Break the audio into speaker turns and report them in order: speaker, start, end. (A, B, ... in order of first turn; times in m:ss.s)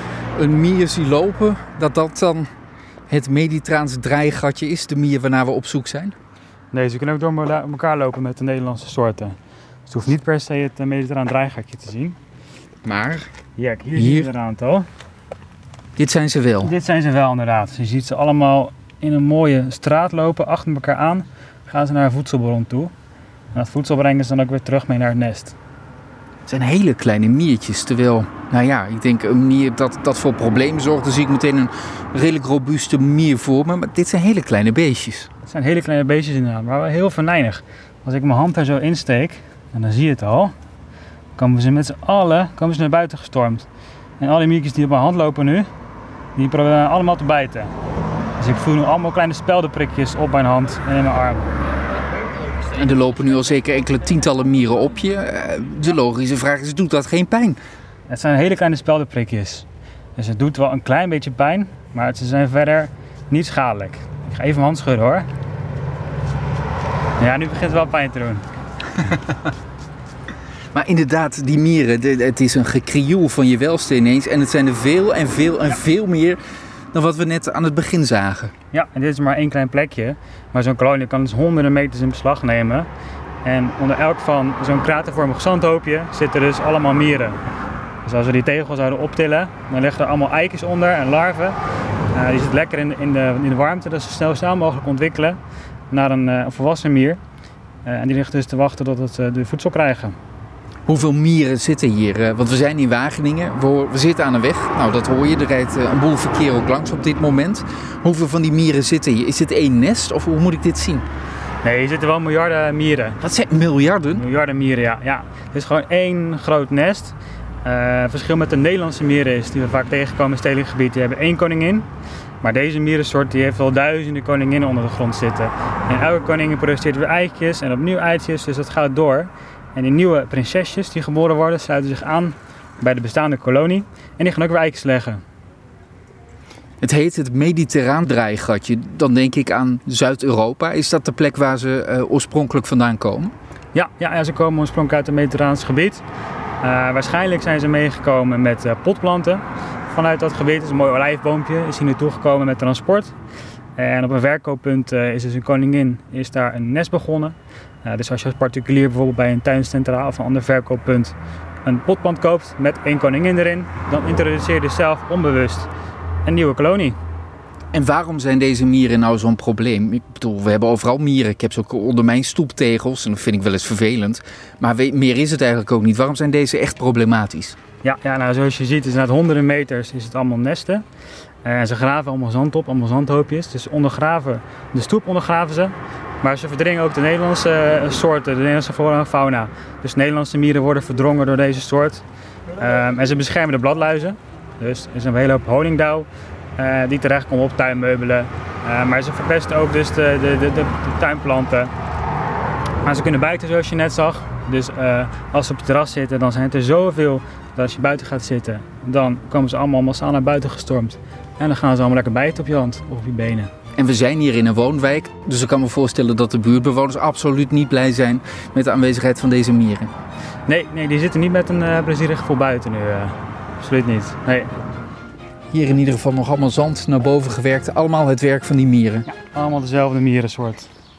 0:00.4-0:02.5 A
0:03.1-0:06.1 A
0:06.7-0:09.4 B
0:09.9-0:12.2 B
0:12.8-0:13.3 A
0:13.6-0:14.9 B
0:14.0-0:14.3 A
0:16.0-0:16.7 A
0:16.6-0:22.9 B
0:23.5-0:25.5 B
0:26.4-0:35.3 A
0:35.4-0:40.5 B
0:41.4-0:43.6 B
0:44.2-0:45.7 B
0:46.4-0:47.7 B
0:48.4-0:51.5 B
0:52.7-0:57.6 A
0:58.1-1:05.2 B
1:07.2-1:08.4 B
1:10.7-1:16.4 A
1:16.9-1:18.5 A
1:18.7-1:22.9 B
1:23.4-1:27.4 B
1:28.0-1:31.6 B
1:32.1-1:35.4 B
1:35.9-1:37.2 B
1:37.8-1:40.2 B
1:40.8-1:51.0 A
1:51.6-1:53.2 B
1:53.2-1:54.2 A
1:54.1-2:01.8 B
2:02.4-2:15.2 B
2:16.8-2:23.3 A
2:23.7-2:26.0 B
2:26.6-2:33.1 B
2:33.8-2:45.7 B
2:46.2-2:47.0 B
2:47.7-2:57.6 A
2:57.8-3:00.8 B
3:01.4-3:12.0 B
3:12.5-3:21.7 B
3:22.8-3:33.5 B
3:33.7-3:39.9 A
3:40.5-3:44.5 B
3:45.5-3:49.1 A
3:49.1-3:50.7 B